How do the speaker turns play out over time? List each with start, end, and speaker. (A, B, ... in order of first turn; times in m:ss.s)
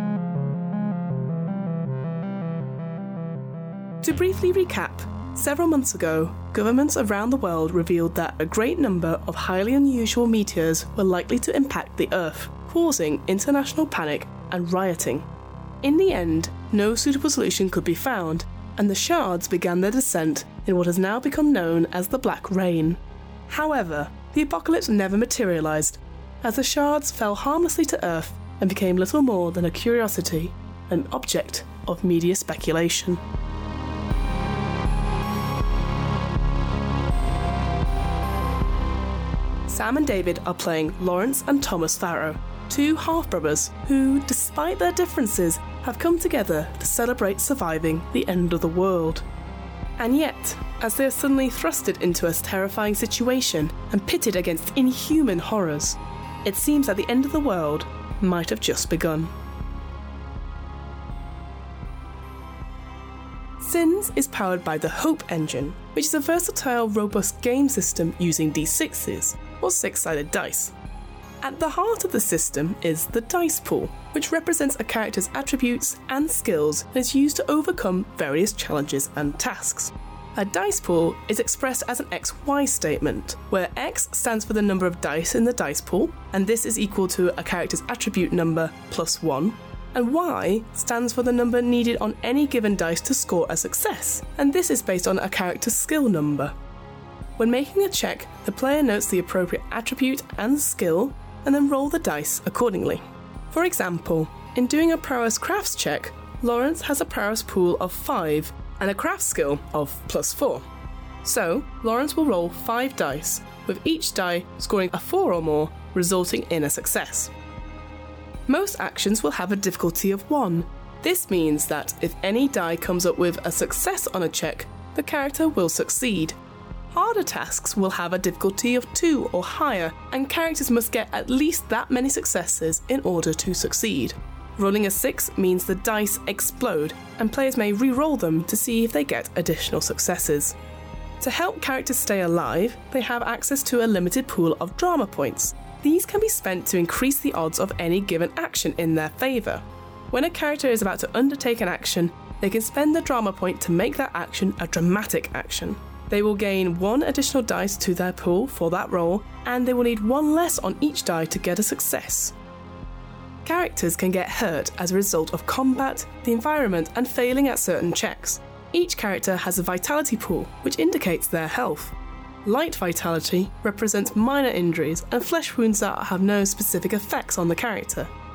0:04.0-0:15.3 A
0:15.8-0:33.2 A
0:39.7-0:49.2 A
0:50.0-0:59.3 A
1:03.6-1:10.7 A
1:11.4-1:36.5 A
1:37.4-1:50.6 A
1:51.2-1:57.3 A
1:58.5-2:06.4 A
2:06.9-2:20.5 A
2:21.2-2:42.3 A
2:43.4-2:51.9 A
2:52.4-2:58.1 A